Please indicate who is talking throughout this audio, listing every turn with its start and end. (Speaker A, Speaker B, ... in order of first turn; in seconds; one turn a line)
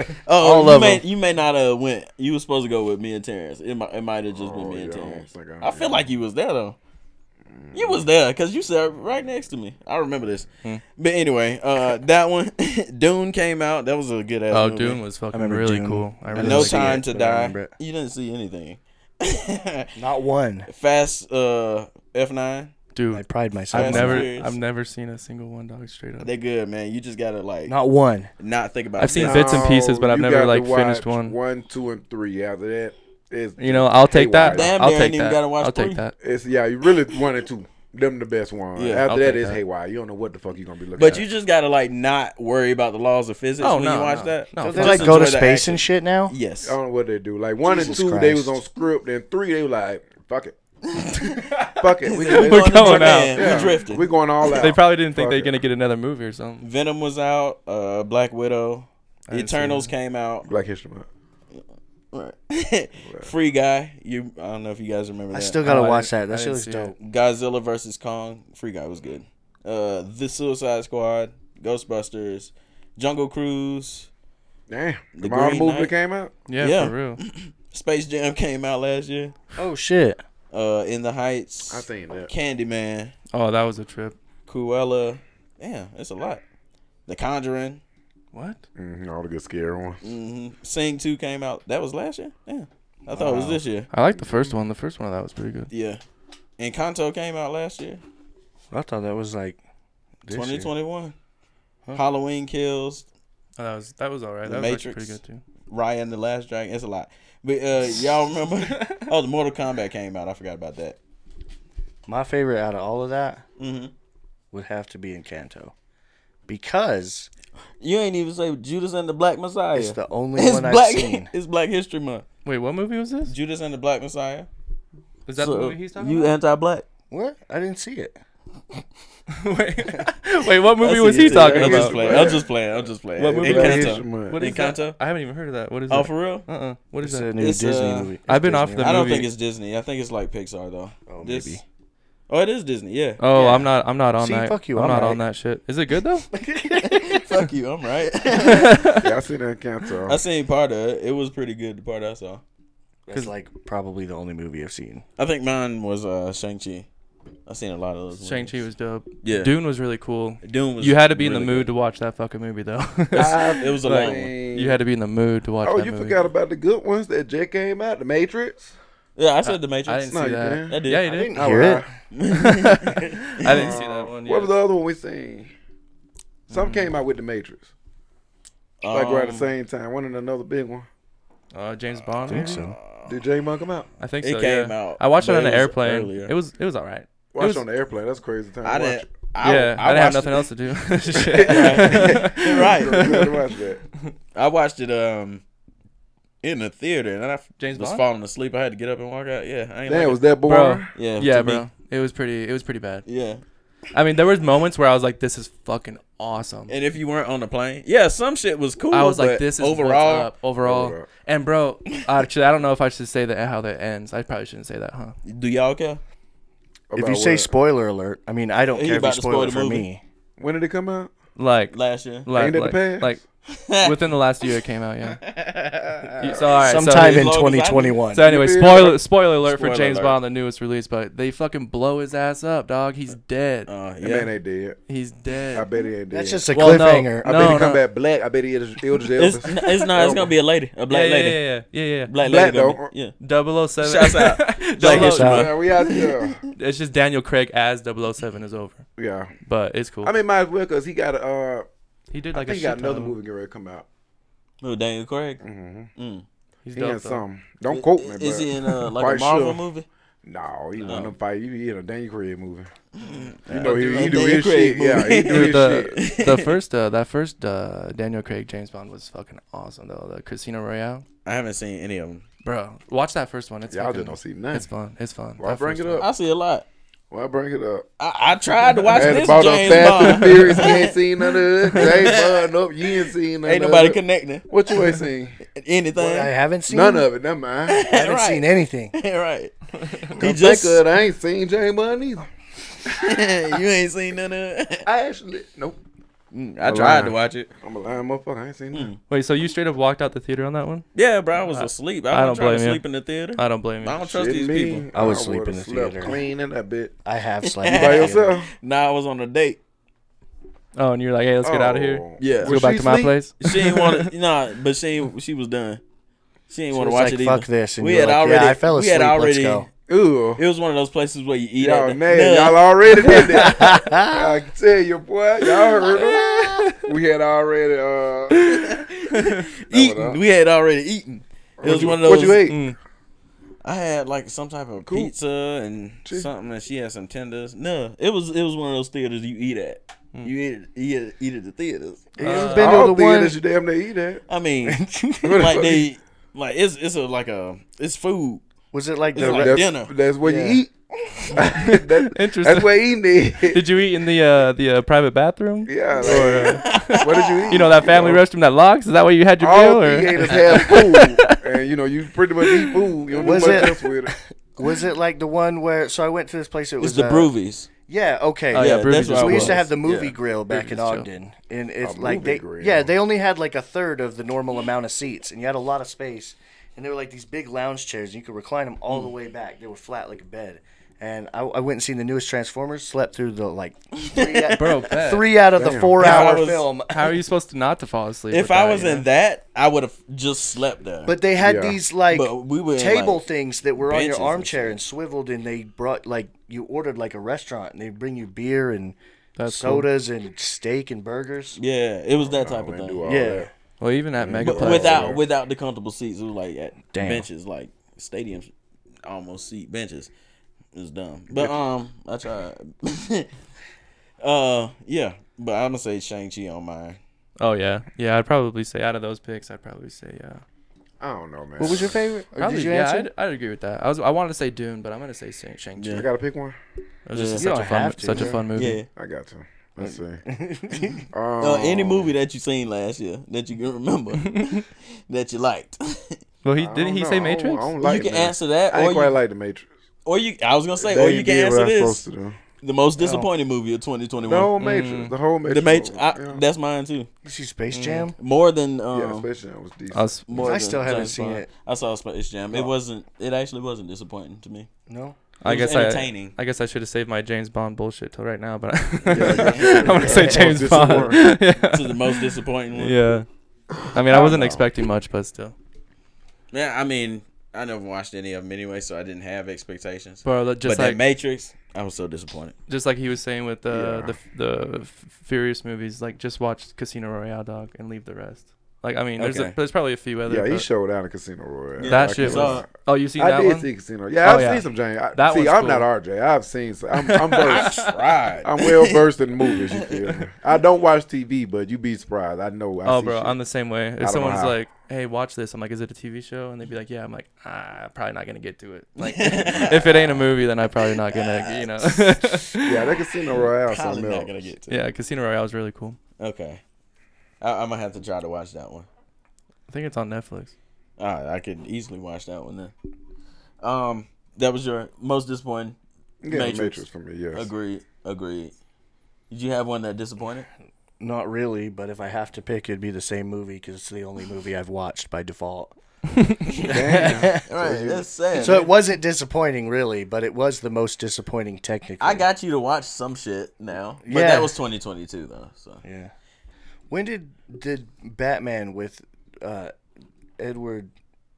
Speaker A: 0.2-6.8
Speaker B: 0.4-1.0
Speaker C: 4.3-6.1
Speaker C: 7.5-8.1
Speaker A: 7.7-15.0
Speaker D: 14.5-17.0
Speaker B: 15.3-17.7
Speaker A: 16.4-19.9
Speaker B: 19.9-20.7
Speaker A: 20.6-22.7
Speaker D: 22.9-26.3
Speaker B: 23.1-24.3
Speaker A: 23.7-24.5
Speaker A: 26.2-27.8
Speaker B: 27.7-28.3
Speaker A: 28.4-29.6
Speaker D: 29.0-31.4
Speaker C: 29.1-34.8
Speaker D: 33.6-36.1
Speaker A: 34.4-36.0
Speaker C: 36.2-41.2
Speaker A: 38.8-39.1
Speaker D: 39.0-39.6
Speaker A: 41.0-46.8
Speaker D: 43.6-45.3
Speaker B: 44.6-46.4
Speaker C: 46.6-50.5
Speaker B: 47.6-48.6
Speaker A: 50.9-54.7
Speaker C: 51.7-55.6
Speaker D: 52.3-53.6
Speaker D: 54.6-56.6
Speaker A: 56.6-60.5
Speaker D: 59.3-59.9
Speaker C: 60.4-61.1
Speaker A: 61.5-65.6
Speaker C: 63.0-63.3
Speaker B: 65.3-67.0
Speaker D: 65.6-66.9
Speaker A: 67.0-74.1
Speaker C: 74.7-76.3
Speaker A: 75.2-75.9
Speaker D: 76.5-77.2
Speaker A: 76.6-79.3
Speaker B: 79.6-80.2
Speaker A: 80.5-83.1
Speaker C: 81.7-82.3
Speaker D: 83.3-84.2
Speaker A: 84.5-86.4
Speaker A: 87.1-87.8
Speaker D: 88.3-88.6
Speaker C: 88.8-90.0
Speaker A: 90.0-93.9
Speaker B: 93.1-93.6
Speaker D: 93.9-95.7
Speaker C: 94.1-94.6
Speaker A: 95.7-96.0
Speaker A: 96.6-98.0
Speaker B: 98.7-99.6
Speaker B: 100.2-100.7
Speaker A: 100.3-101.1
Speaker A: 101.9-103.0
Speaker D: 103.6-105.4
Speaker A: 104.4-105.2
Speaker A: 105.7-111.0
Speaker B: 112.1-113.4
Speaker A: 113.6-113.9
Speaker B: 114.5-115.7
Speaker B: 116.5-117.3
Speaker A: 117.8-122.2
Speaker B: 119.7-121.3
Speaker D: 122.4-123.3
Speaker A: 123.3-124.5
Speaker D: 125.2-126.3
Speaker A: 125.4-126.8
Speaker B: 127.1-128.2
Speaker D: 129.3-132.2
Speaker A: 130.8-135.0
Speaker C: 130.8-132.5
Speaker D: 133.2-137.3
Speaker C: 133.3-134.4
Speaker A: 135.9-136.4
Speaker B: 137.0-139.2
Speaker A: 137.4-138.1
Speaker D: 138.3-139.3
Speaker A: 138.8-141.6
Speaker B: 141.1-141.6
Speaker A: 142.3-143.2
Speaker D: 143.2-146.3
Speaker B: 143.3-145.2
Speaker B: 146.3-147.2
Speaker A: 146.8-148.8
Speaker D: 148.4-149.1
Speaker C: 149.0-150.2
Speaker A: 150.1-152.4
Speaker B: 153.1-155.0
Speaker A: 155.2-156.9
Speaker A: 157.4-158.6
Speaker D: 158.2-166.2
Speaker A: 159.2-159.5
Speaker A: 160.4-161.7
Speaker C: 163.1-164.8
Speaker A: 163.2-164.3
Speaker C: 165.6-168.8
Speaker A: 169.2-170.1
Speaker D: 169.4-171.6
Speaker C: 170.1-171.9
Speaker A: 170.7-171.1
Speaker B: 171.1-172.0
Speaker A: 172.1-173.7
Speaker D: 172.4-174.5
Speaker C: 173.4-175.5
Speaker D: 176.5-176.9
Speaker C: 176.5-177.7
Speaker A: 178.8-179.5
Speaker C: 178.9-180.9
Speaker D: 181.5-182.6
Speaker B: 182.3-182.8
Speaker A: 182.5-183.2
Speaker C: 183.1-183.9
Speaker D: 184.0-187.6
Speaker A: 184.2-186.3
Speaker C: 187.3-189.1
Speaker A: 188.6-190.5
Speaker D: 189.4-193.3
Speaker C: 191.3-193.8
Speaker A: 191.4-193.2
Speaker A: 194.3-195.4
Speaker A: 196.4-200.2
Speaker D: 197.6-198.0
Speaker C: 199.8-200.9
Speaker D: 200.4-203.1
Speaker A: 200.9-201.7
Speaker A: 203.1-203.4
Speaker D: 203.9-206.7
Speaker A: 206.7-210.3
Speaker D: 208.9-215.2
Speaker C: 210.6-211.1
Speaker A: 215.2-216.0
Speaker C: 216.9-217.5
Speaker B: 216.9-220.0
Speaker A: 218.7-219.9
Speaker C: 220.4-221.1
Speaker D: 221.3-223.2
Speaker A: 221.7-222.3
Speaker C: 222.3-223.2
Speaker A: 223.5-224.0
Speaker D: 223.8-225.2
Speaker A: 225.1-228.0
Speaker D: 226.2-227.3
Speaker B: 226.6-228.2
Speaker D: 228.1-233.7
Speaker C: 228.2-229.0
Speaker A: 229.4-230.2
Speaker A: 233.7-234.3
Speaker C: 234.0-234.8
Speaker D: 234.9-235.7
Speaker C: 235.5-240.3
Speaker B: 236.1-237.7
Speaker D: 236.5-237.8
Speaker A: 239.2-241.4
Speaker D: 240.9-242.1
Speaker A: 242.1-243.2
Speaker C: 242.2-242.9
Speaker D: 243.2-245.4
Speaker A: 243.8-246.4
Speaker B: 244.8-245.5
Speaker C: 245.1-246.4
Speaker D: 246.5-248.9
Speaker C: 249.0-249.3
Speaker D: 249.4-250.1
Speaker C: 250.0-251.7
Speaker D: 252.1-253.2
Speaker C: 252.3-253.8
Speaker A: 254.6-255.4
Speaker C: 255.4-255.9
Speaker A: 255.9-256.2
Speaker D: 256.6-257.2
Speaker C: 256.7-259.6
Speaker A: 257.7-259.9
Speaker C: 260.2-262.7
Speaker A: 260.8-261.1
Speaker A: 263.0-266.5
Speaker D: 263.4-264.1
Speaker C: 263.4-266.0
Speaker D: 265.3-271.0
Speaker A: 271.2-272.2
Speaker D: 272.4-276.1
Speaker C: 273.7-274.7
Speaker C: 275.4-276.1
Speaker A: 276.0-276.6
Speaker C: 277.1-277.9
Speaker A: 278.0-281.0
Speaker C: 278.9-285.4
Speaker D: 280.2-280.6
Speaker A: 281.7-282.5
Speaker A: 283.4-284.9
Speaker A: 285.5-286.3
Speaker B: 285.9-287.1
Speaker C: 286.7-287.8
Speaker A: 287.7-290.8
Speaker B: 287.9-288.9
Speaker C: 290.2-292.3
Speaker A: 292.8-294.9
Speaker C: 294.8-295.8
Speaker A: 296.3-297.5
Speaker C: 296.6-298.9
Speaker A: 298.7-299.0
Speaker D: 299.1-300.9
Speaker A: 300.9-304.9
Speaker D: 301.4-302.8
Speaker D: 303.3-304.0
Speaker C: 304.1-306.9
Speaker B: 304.9-306.2
Speaker B: 307.0-308.3
Speaker A: 307.4-309.6
Speaker C: 307.7-308.5
Speaker D: 310.7-314.1
Speaker C: 311.4-313.2
Speaker A: 312.2-312.6
Speaker A: 313.4-315.8
Speaker A: 316.5-319.7
Speaker B: 316.7-319.7
Speaker C: 319.9-320.4
Speaker A: 320.4-323.2
Speaker C: 321.6-328.8
Speaker B: 323.0-324.3
Speaker D: 326.0-326.8
Speaker A: 328.5-332.4
Speaker D: 329.1-329.4
Speaker C: 329.7-330.2
Speaker C: 331.6-332.7
Speaker D: 332.4-332.8
Speaker A: 333.6-342.2
Speaker C: 334.8-335.1
Speaker B: 342.2-343.3
Speaker D: 342.2-342.9
Speaker C: 342.2-344.2
Speaker A: 344.3-344.8
Speaker B: 344.6-345.6
Speaker C: 345.2-345.9
Speaker A: 345.3-348.4
Speaker B: 348.7-349.6
Speaker A: 349.1-349.9
Speaker C: 349.1-350.7
Speaker B: 350.2-350.6
Speaker C: 351.3-353.7
Speaker D: 351.6-352.7
Speaker D: 353.4-361.4
Speaker C: 355.6-358.2
Speaker A: 356.0-357.6
Speaker C: 359.4-364.1
Speaker D: 362.4-362.8
Speaker B: 363.2-367.3
Speaker A: 366.8-367.7
Speaker B: 367.9-387.1
Speaker D: 368.5-369.6
Speaker A: 368.5-370.1
Speaker D: 370.5-371.1
Speaker C: 371.8-372.9
Speaker A: 378.9-379.1
Speaker A: 384.1-385.0
Speaker D: 384.6-385.3
Speaker C: 385.5-386.0
Speaker A: 386.0-386.7
Speaker D: 386.0-386.3
Speaker D: 386.9-389.1
Speaker A: 388.3-391.1
Speaker B: 391.1-401.6
Speaker C: 391.4-391.8
Speaker A: 392.1-393.2
Speaker A: 393.8-394.8
Speaker D: 399.4-399.9
Speaker A: 401.6-403.2
Speaker C: 402.2-403.5
Speaker B: 403.0-403.5
Speaker D: 403.8-405.2
Speaker C: 404.2-405.2
Speaker A: 404.4-408.5
Speaker B: 406.9-407.3
Speaker A: 409.0-410.1
Speaker A: 410.7-413.3
Speaker C: 411.3-411.6
Speaker A: 414.2-417.0
Speaker D: 417.4-420.4
Speaker C: 421.0-422.0
Speaker B: 421.6-423.1
Speaker D: 422.4-426.1
Speaker A: 425.8-426.1
Speaker C: 425.9-426.6
Speaker D: 427.1-428.8
Speaker A: 427.1-427.4
Speaker B: 427.4-428.3
Speaker C: 428.1-430.2
Speaker A: 428.6-428.9
Speaker B: 429.8-431.1
Speaker C: 431.1-432.1
Speaker A: 431.4-436.2
Speaker D: 434.2-434.6
Speaker D: 436.4-437.7
Speaker C: 436.6-439.7
Speaker A: 437.8-439.2
Speaker A: 440.0-442.0
Speaker C: 440.8-442.4
Speaker A: 442.6-444.5
Speaker B: 443.0-443.3
Speaker C: 444.2-446.4
Speaker D: 444.6-445.1
Speaker A: 445.4-447.1
Speaker B: 447.2-448.1
Speaker D: 447.7-448.1
Speaker A: 448.2-449.3
Speaker C: 448.9-450.5
Speaker D: 449.9-450.3
Speaker A: 450.3-454.7
Speaker B: 450.3-451.5
Speaker B: 454.9-455.1
Speaker D: 455.4-463.2
Speaker A: 455.4-456.3
Speaker A: 459.1-460.5
Speaker C: 459.1-461.2
Speaker B: 460.0-461.0
Speaker A: 461.2-463.1
Speaker D: 463.9-465.5
Speaker C: 463.9-464.7
Speaker A: 466.5-472.5
Speaker D: 470.2-471.0
Speaker D: 472.7-480.7
Speaker C: 473.7-474.1
Speaker A: 479.2-479.6
Speaker C: 480.3-493.4
Speaker A: 481.8-482.6
Speaker D: 481.9-483.7
Speaker D: 484.2-485.9
Speaker D: 487.0-487.9
Speaker A: 487.4-489.0
Speaker D: 492.8-502.8
Speaker C: 494.0-494.6
Speaker A: 499.0-500.3
Speaker A: 500.8-502.1
Speaker C: 502.6-504.4
Speaker A: 503.3-504.9
Speaker D: 504.7-506.0
Speaker A: 506.2-506.6
Speaker A: 507.4-508.9
Speaker D: 509.7-510.5
Speaker A: 511.0-512.7
Speaker A: 513.6-515.8
Speaker C: 516.2-517.5
Speaker A: 516.3-518.5
Speaker A: 519.3-520.5
Speaker B: 521.0-525.8
Speaker A: 526.5-528.7
Speaker B: 526.6-532.2
Speaker C: 526.6-528.0
Speaker A: 532.0-535.8
Speaker B: 534.0-534.5
Speaker B: 535.8-536.1
Speaker B: 536.9-539.7
Speaker B: 540.4-540.9